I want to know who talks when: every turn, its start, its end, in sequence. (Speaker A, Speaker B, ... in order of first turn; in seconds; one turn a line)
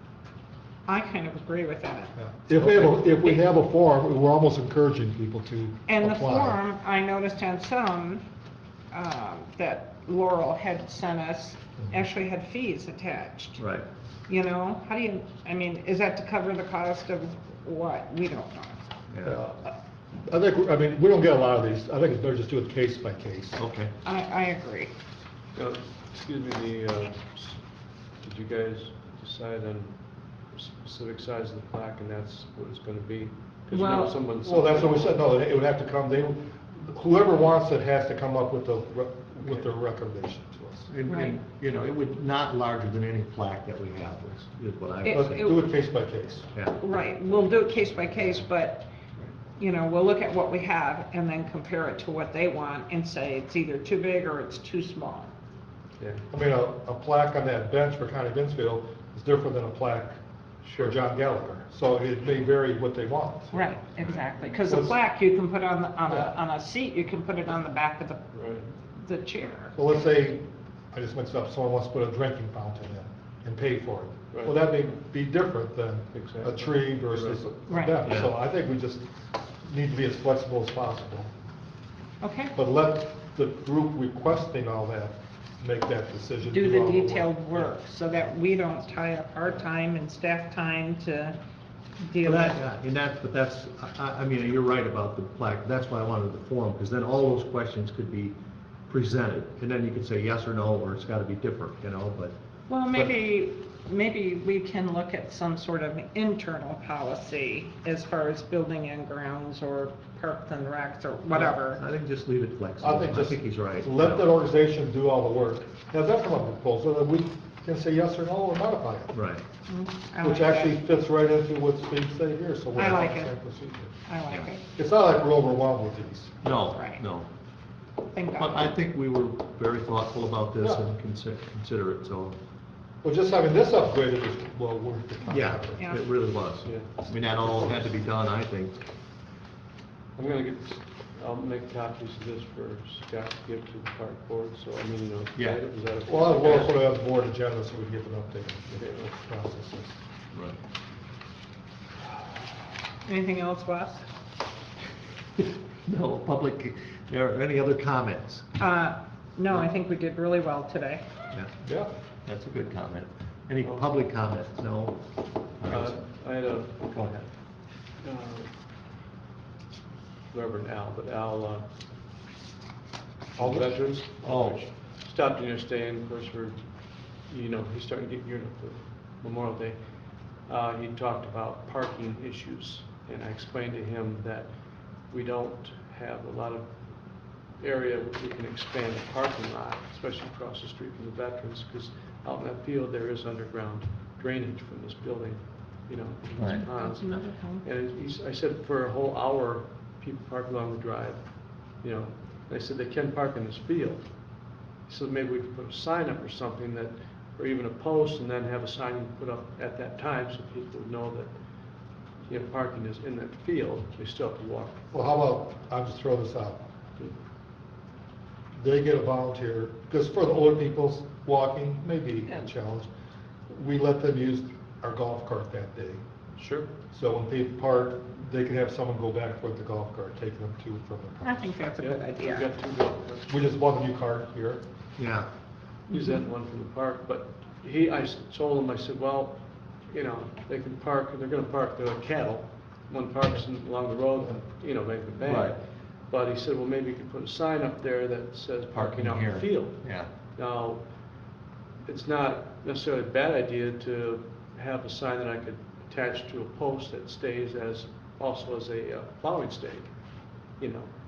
Speaker A: 0.9-3.4
Speaker B: 2.2-6.6
Speaker A: 5.9-8.2
Speaker A: 8.9-13.6
Speaker C: 13.6-13.9
Speaker A: 14.3-18.8
Speaker C: 19.1-19.4
Speaker B: 19.2-19.7
Speaker B: 20.2-23.6
Speaker C: 23.6-23.9
Speaker A: 24.0-24.9
Speaker D: 25.6-27.6
Speaker D: 28.2-29.9
Speaker D: 30.5-35.2
Speaker A: 33.7-34.2
Speaker B: 34.4-40.9
Speaker D: 39.4-39.7
Speaker C: 40.9-45.6
Speaker A: 41.1-41.4
Speaker A: 45.0-45.7
Speaker B: 45.1-46.5
Speaker A: 46.8-48.9
Speaker A: 49.6-55.3
Speaker D: 56.0-56.2
Speaker B: 56.3-60.2
Speaker D: 60.6-61.0
Speaker B: 60.8-63.8
Speaker A: 63.5-68.3
Speaker B: 64.7-65.0
Speaker D: 68.3-68.7
Speaker A: 69.0-69.8
Speaker B: 69.8-79.1
Speaker D: 76.1-77.5
Speaker A: 77.7-78.0
Speaker C: 78.1-78.3
Speaker B: 79.6-81.3
Speaker A: 82.2-82.5
Speaker B: 82.5-87.4
Speaker A: 86.5-91.4
Speaker A: 92.0-92.6
Speaker C: 92.2-98.4
Speaker C: 98.9-102.3
Speaker A: 102.7-111.8
Speaker C: 111.3-114.3
Speaker B: 112.8-119.2
Speaker C: 119.1-119.4
Speaker A: 119.7-120.8
Speaker B: 120.2-123.9
Speaker A: 122.8-123.4
Speaker A: 124.1-124.6
Speaker B: 124.8-126.4
Speaker C: 126.4-127.3
Speaker A: 126.7-127.0
Speaker A: 128.1-128.8
Speaker C: 128.4-132.4
Speaker B: 133.0-135.8
Speaker C: 135.3-138.8
Speaker D: 136.6-136.9
Speaker D: 140.2-146.8
Speaker C: 145.4-145.6
Speaker B: 146.1-150.0
Speaker C: 146.4-146.7
Speaker D: 148.8-149.1
Speaker C: 150.3-150.6
Speaker A: 153.1-154.1
Speaker C: 155.4-158.4
Speaker A: 158.6-161.1
Speaker B: 161.6-161.9
Speaker C: 162.2-166.0
Speaker D: 165.7-166.9
Speaker C: 166.9-167.3
Speaker D: 168.0-168.5
Speaker D: 170.3-171.7
Speaker D: 173.4-176.6
Speaker C: 173.4-174.6
Speaker D: 177.3-179.8
Speaker D: 180.5-184.5
Speaker D: 185.1-186.7
Speaker D: 187.6-201.2
Speaker C: 196.4-196.6
Speaker A: 196.4-197.7
Speaker D: 201.8-204.1
Speaker D: 204.9-211.3
Speaker D: 212.3-214.8
Speaker B: 214.9-216.6
Speaker B: 218.6-222.9
Speaker B: 223.5-226.0
Speaker D: 226.4-226.7
Speaker B: 226.9-231.4
Speaker A: 231.2-232.5
Speaker D: 231.8-233.3
Speaker B: 233.3-234.6
Speaker C: 235.0-235.3
Speaker D: 235.9-249.8
Speaker C: 245.2-245.6
Speaker C: 248.7-250.1
Speaker D: 250.3-250.8
Speaker D: 251.9-259.9
Speaker D: 260.6-260.9